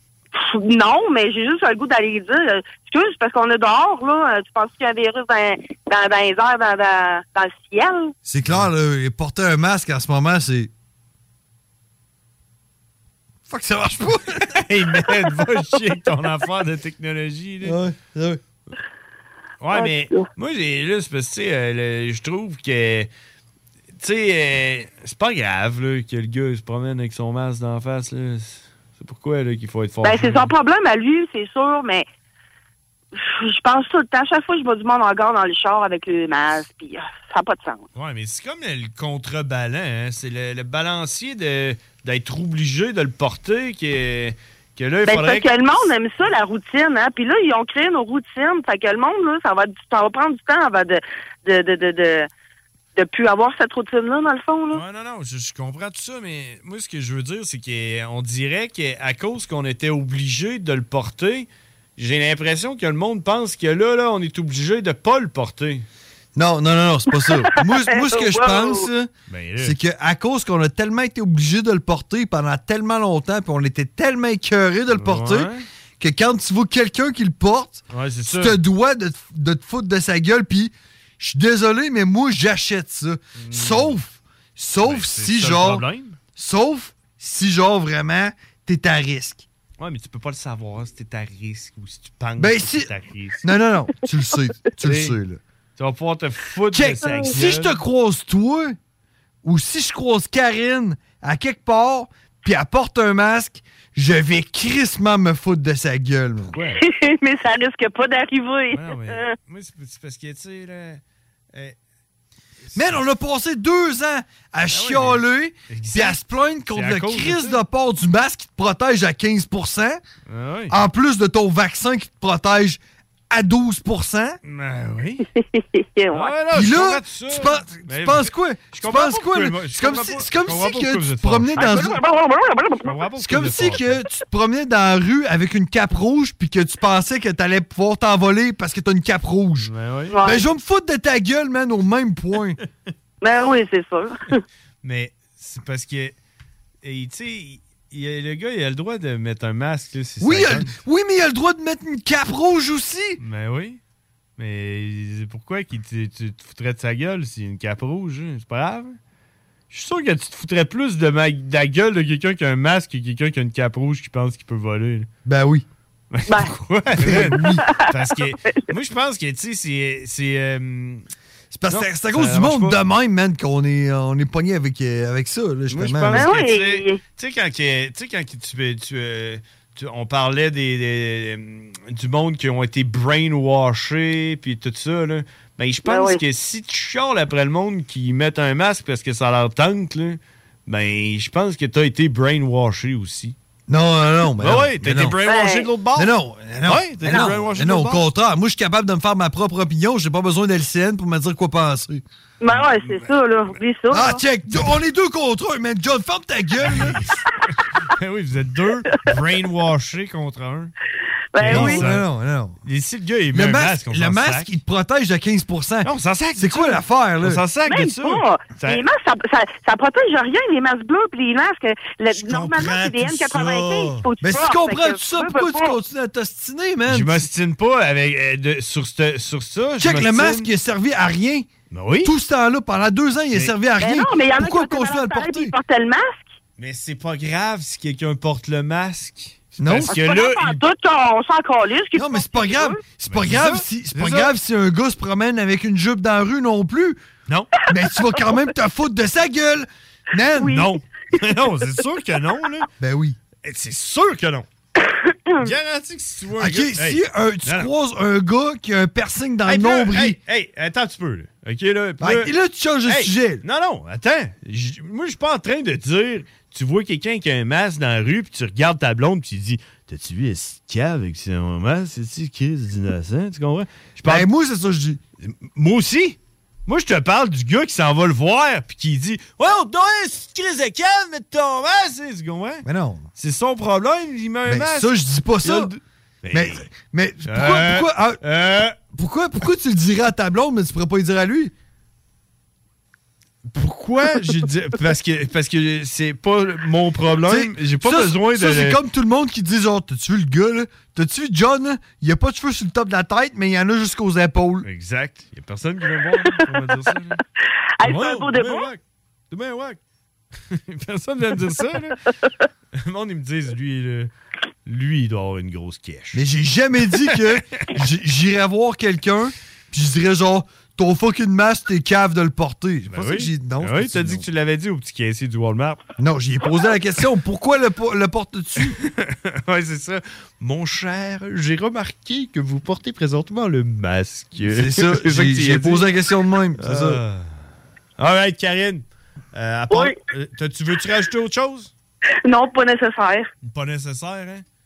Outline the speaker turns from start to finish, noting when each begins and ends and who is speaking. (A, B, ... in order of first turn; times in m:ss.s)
0:00.4-0:08.1 A
0:08.3-0:10.7 B
0:13.5-0:14.5 B
0:14.5-0:17.8 C
0:17.6-0:18.4 B
0:19.6-0:23.1 C
0:19.7-0:20.3 A
0:24.0-0:30.5 C
0:30.0-0:32.1 A
0:33.2-0:37.8 A
0:38.0-0:45.9 C
0:45.0-0:52.3 A
0:53.0-0:54.8 A
0:54.7-1:05.9 C
1:06.4-1:25.8 B
1:07.1-1:08.9 A
1:09.3-1:09.8 C
1:14.9-1:15.6 C
1:17.9-1:18.6 C
1:23.4-1:24.0 C
1:24.8-1:26.2 C
1:26.4-1:29.5 B
1:29.8-1:33.4 C
1:32.4-1:32.9 B
1:33.4-1:35.4 B
1:34.8-1:35.2 C
1:35.8-1:37.8 C
1:36.7-1:38.8 B
1:37.0-1:37.3 A
1:39.4-1:46.6 B
1:46.5-1:46.8 C
1:46.8-1:49.3 A
1:48.7-1:51.0 C
1:52.7-1:53.0 C
1:52.8-2:00.0 B
1:54.7-1:57.6 C
2:00.3-2:00.8 C
2:00.7-2:04.4 B
2:04.4-2:05.3 C
2:05.4-2:06.3 A
2:06.1-2:12.0 C
2:06.5-2:12.0 B
2:11.6-2:13.0 A
2:12.8-2:14.0 C
2:13.2-2:19.7 B
2:19.6-2:20.3 C
2:20.1-2:20.4 A
2:20.2-2:22.6 B
2:23.2-2:24.4 A
2:24.8-2:26.2 C
2:26.8-2:30.7 C
2:30.2-2:33.2 B
2:33.2-2:33.8 C
2:34.4-2:39.0 C
2:39.7-2:45.1 C
2:45.2-2:45.6 B
2:46.1-2:51.1 C
2:46.3-2:46.5 A
2:47.0-2:47.6 B
2:47.1-2:48.6 A
2:51.5-2:56.3 B
2:51.7-2:52.8 C
2:55.7-3:13.4 C
2:56.1-2:57.0 A
3:05.9-3:06.2 A
3:13.7-3:15.2 B
3:14.4-3:18.1 C
3:15.2-3:15.7 A
3:16.0-3:22.0 B
3:22.4-3:24.2 A
3:22.5-3:23.1 C
3:23.9-3:27.0 B
3:26.6-3:30.7 C
3:31.3-3:31.8 A
3:31.4-3:32.1 C
3:31.4-3:32.6 B
3:32.6-3:34.6 C
3:33.3-3:37.4 B
3:35.8-3:38.8 C
3:37.7-3:45.8 A
3:42.1-3:44.1 C
3:44.2-3:47.2 B
3:46.9-3:50.5 C
3:49.8-3:51.5 B
3:51.7-3:52.1 C
3:52.0-3:55.5 B
3:53.8-3:56.3 A
3:56.6-4:00.6 C
3:59.6-4:00.0 B
3:59.9-4:02.8 A
4:02.0-4:07.0 B
4:03.1-4:04.3 C
4:07.7-4:10.7 B
4:10.4-4:10.7 A
4:10.4-4:12.7 C
4:12.8-4:13.2 B
4:13.4-4:14.5 C
4:15.1-4:15.5 A
4:15.4-4:17.7 C
4:16.4-4:20.2 B
4:19.5-4:22.3 C
4:22.0-4:23.4 B
4:22.9-4:34.3 C
4:34.0-4:35.0 B
4:35.2-4:42.6 C
4:42.6-4:43.1 B
4:43.2-4:46.7 C
4:44.5-4:45.7 B
4:46.3-4:48.2 B
4:47.2-4:48.8 C
4:48.8-4:51.5 B
4:53.5-4:58.8 C
4:57.3-5:04.6 B
5:04.6-5:07.2 C
5:07.8-5:08.7 A
5:07.8-5:08.8 C
5:09.3-5:09.8 C
5:10.5-5:12.0 C
5:12.8-5:14.1 C
5:14.7-5:16.2 C
5:16.1-5:24.2 B
5:22.9-5:25.8 C
5:26.0-5:28.8 B
5:28.6-5:35.9 C
5:34.4-5:37.0 B
5:36.6-5:37.3 C
5:38.0-5:41.7 C
5:42.2-5:43.3 A
5:43.4-5:44.4 C